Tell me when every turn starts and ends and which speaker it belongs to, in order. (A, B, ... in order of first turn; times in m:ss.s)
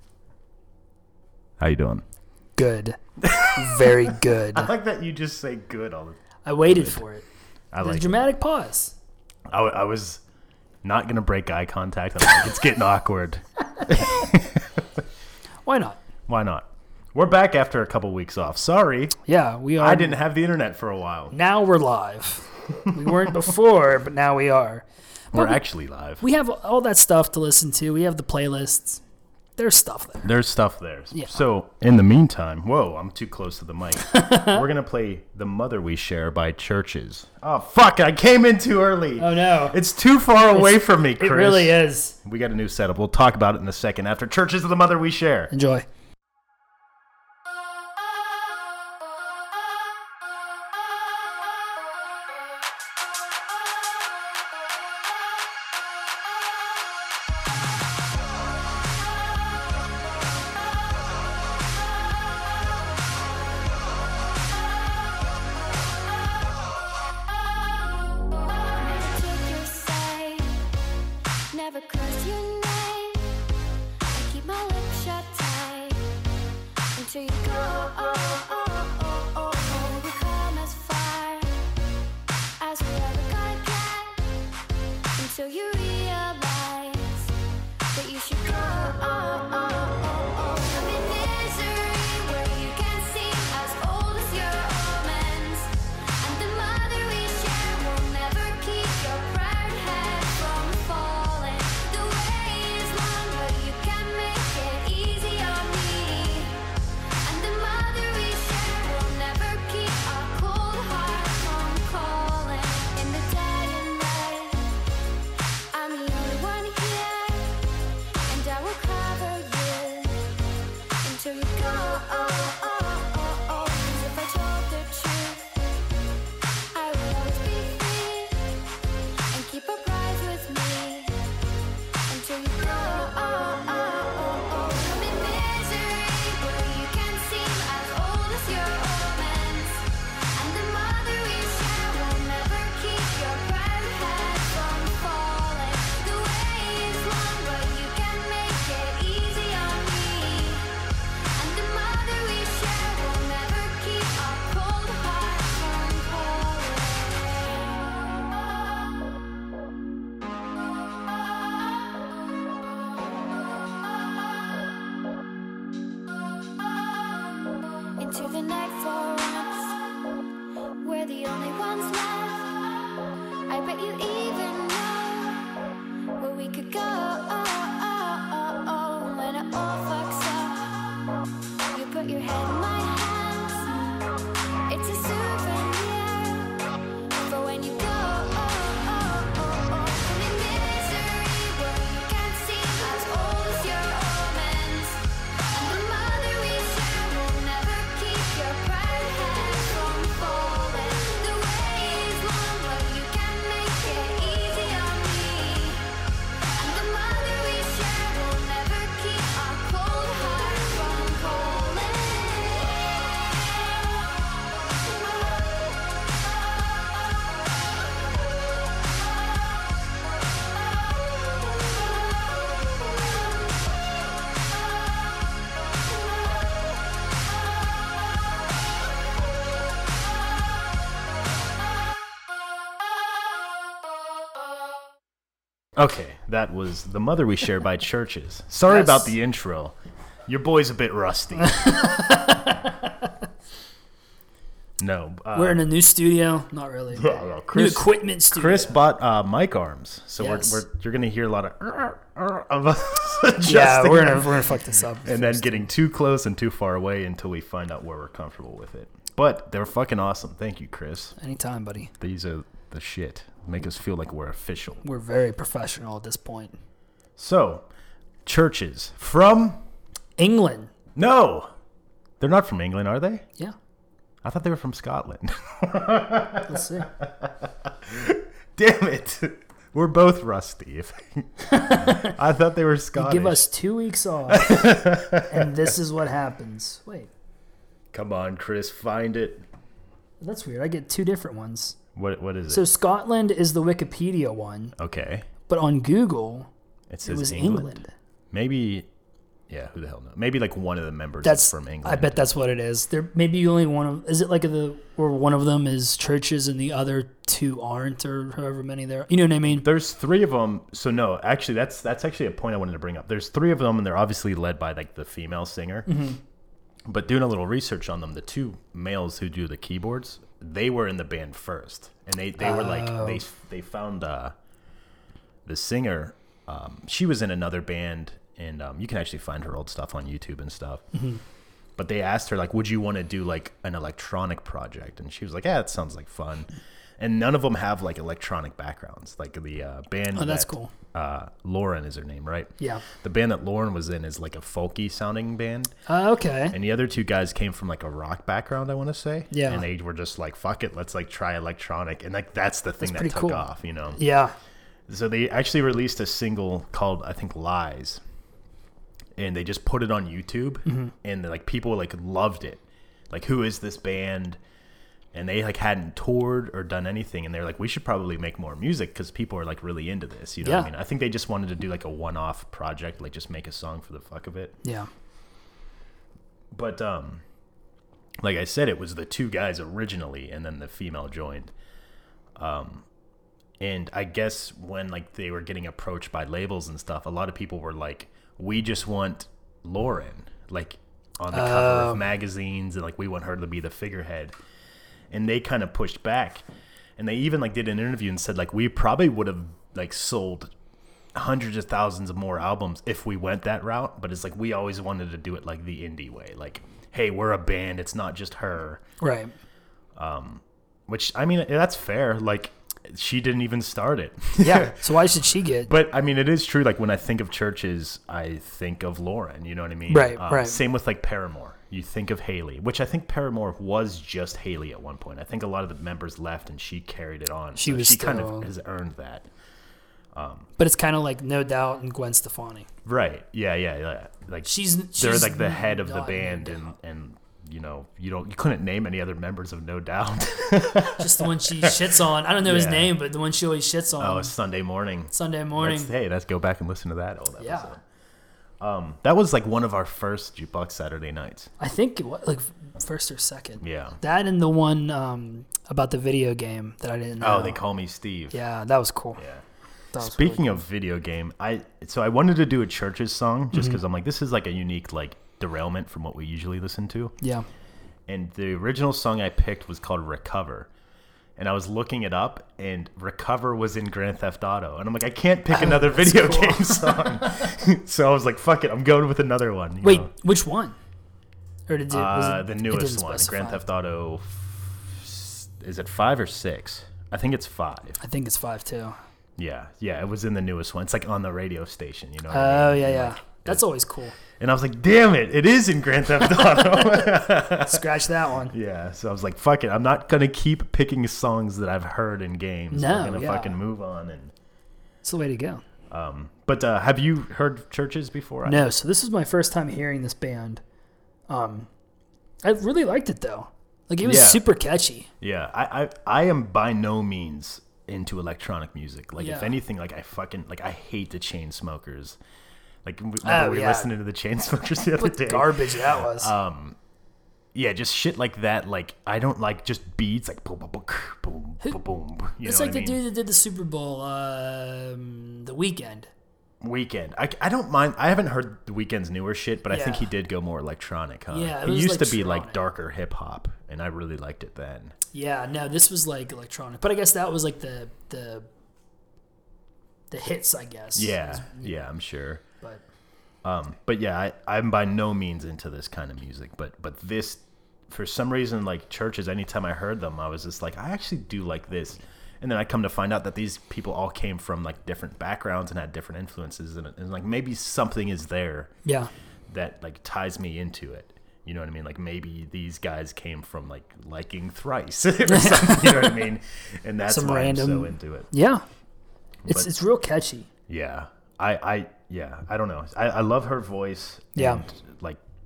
0:01.6-0:02.0 A
0:02.6-0:03.0 B
0:03.2-0:07.0 A
0:03.5-0:04.7 B
0:06.4-0:07.3 B
0:07.7-0:08.3 A
0:07.8-0:09.0 B
0:09.5-0:10.2 A
0:10.8-0:14.7 A
0:13.8-0:14.3 B
0:15.6-0:16.0 B
0:16.3-0:19.2 A
0:19.2-0:20.2 B
0:19.8-0:21.3 A
0:21.3-0:25.6 B
0:22.9-0:23.3 A
0:25.3-0:26.2 A
0:26.2-0:29.0 B
0:29.6-0:30.3 B
0:30.2-0:45.5 A
0:31.1-0:31.4 B
0:34.0-0:34.6 B
0:39.2-0:39.8 B
0:40.5-0:42.2 B
0:45.5-0:45.8 B
1:08.8-1:10.6 C
1:11.5-1:13.4 C
1:14.1-1:16.0 C
1:16.9-1:21.6 C
1:22.6-1:24.3 C
1:25.1-1:27.3 C
1:27.9-1:46.7 C
1:47.2-1:54.8 C
1:55.7-1:57.6 C
1:58.3-2:00.3 C
2:01.0-2:05.6 C
2:06.7-2:08.6 C
2:09.3-2:11.2 C
2:12.1-2:37.3 C
2:48.0-2:49.8 C
2:50.8-2:52.8 C
2:53.5-2:55.5 C
2:56.2-3:00.9 C
3:01.7-3:03.9 C
3:04.7-3:06.6 C
3:07.2-3:25.9 C
3:26.6-3:33.4 C
3:55.8-3:59.8 A
3:58.7-3:59.1 B
4:00.3-4:02.1 A
4:01.6-4:02.6 B
4:04.8-4:05.7 A
4:05.3-4:08.8 B
4:06.9-4:21.2 A
4:10.2-4:10.6 B
4:13.4-4:15.7 B
4:21.2-4:21.9 B
4:22.0-4:24.8 A
4:24.8-4:26.6 B
4:27.2-4:27.6 A
4:28.2-4:29.6 A
4:30.2-4:30.7 B
4:31.0-4:31.5 A
4:32.2-4:33.2 A
4:34.2-4:43.5 A
4:36.4-4:36.9 B
4:41.5-4:42.1 B
4:42.9-4:47.1 B
4:44.3-4:45.6 A
4:47.9-4:49.4 A
4:50.2-4:51.8 B
4:52.0-4:52.7 A
4:52.5-4:54.7 B
4:54.8-4:55.3 A
4:55.4-4:56.5 B
4:56.9-4:58.9 A
4:57.0-4:57.9 B
4:59.5-5:02.3 A
5:01.2-5:09.6 B
5:09.4-5:15.9 A
5:15.8-5:16.2 B
5:16.9-5:24.3 A
5:22.4-5:23.2 B
5:25.4-5:30.8 A
5:30.9-5:31.2 B
5:31.8-5:45.7 A
5:40.1-5:40.7 B
5:42.6-5:42.8 B
5:45.8-5:46.6 B
5:46.5-5:54.0 A
5:49.3-5:49.6 B
5:52.8-5:54.3 B
5:54.9-5:58.0 A
5:59.2-6:04.4 A
6:00.6-6:00.9 B
6:05.1-6:14.5 A
6:10.4-6:10.7 B
6:14.6-6:14.9 B
6:16.5-6:17.2 A
6:18.2-6:21.5 A
6:22.4-6:22.8 A
6:23.6-6:34.4 A
6:31.3-6:32.0 B
6:35.1-6:36.4 A
6:37.0-6:40.5 A
6:41.1-6:48.8 A
6:49.0-6:49.3 B
6:50.0-7:09.3 A
6:54.4-6:55.7 B
6:59.9-7:00.6 B
7:07.6-7:08.5 B
7:10.1-7:10.5 A
7:10.6-7:12.7 B
7:12.8-7:21.8 A
7:14.4-7:16.7 B
7:20.8-7:24.3 B
7:22.4-7:23.0 A
7:24.0-7:27.8 A
7:25.1-7:25.9 B
7:27.4-7:27.7 B
7:28.6-7:31.5 A
7:31.6-7:37.6 B
7:33.6-7:34.0 A
7:37.2-7:38.4 A
7:38.3-7:39.2 B
7:39.2-7:39.4 A
7:39.9-7:40.6 B
7:40.0-7:47.1 A
7:43.5-7:43.8 B
7:47.2-7:47.4 B
7:48.1-7:50.7 A
7:51.4-8:00.1 A
7:55.5-7:57.4 B
7:59.8-8:00.8 B
8:01.7-8:03.6 B
8:01.9-8:08.0 A
8:08.0-8:09.0 B
8:09.4-8:13.6 A
8:12.3-8:14.2 B
8:14.4-8:17.8 A
8:16.8-8:18.6 B
8:18.5-8:24.3 A
8:22.7-8:23.6 B
8:25.0-8:25.6 B
8:25.9-8:28.7 A
8:28.4-8:30.6 B
8:31.3-8:31.7 B
8:32.4-8:35.1 B
8:34.0-8:34.4 A
8:35.2-8:42.2 A
8:39.2-8:39.6 B
8:42.8-8:46.8 A
8:43.2-8:43.9 B
8:44.9-8:46.3 B
8:47.5-8:53.0 A
8:52.4-8:56.1 B
8:56.6-9:04.9 A
8:59.7-9:00.1 B
9:01.3-9:02.6 B
9:05.1-9:08.5 B
9:10.1-9:11.8 B
9:10.9-9:12.4 A
9:13.4-9:28.7 A
9:28.8-9:29.1 B
9:29.5-9:38.3 A
9:35.2-9:36.3 B
9:37.1-9:38.6 B
9:39.4-9:39.8 A
9:39.4-9:40.5 B
9:40.7-9:45.2 A
9:44.3-9:44.6 B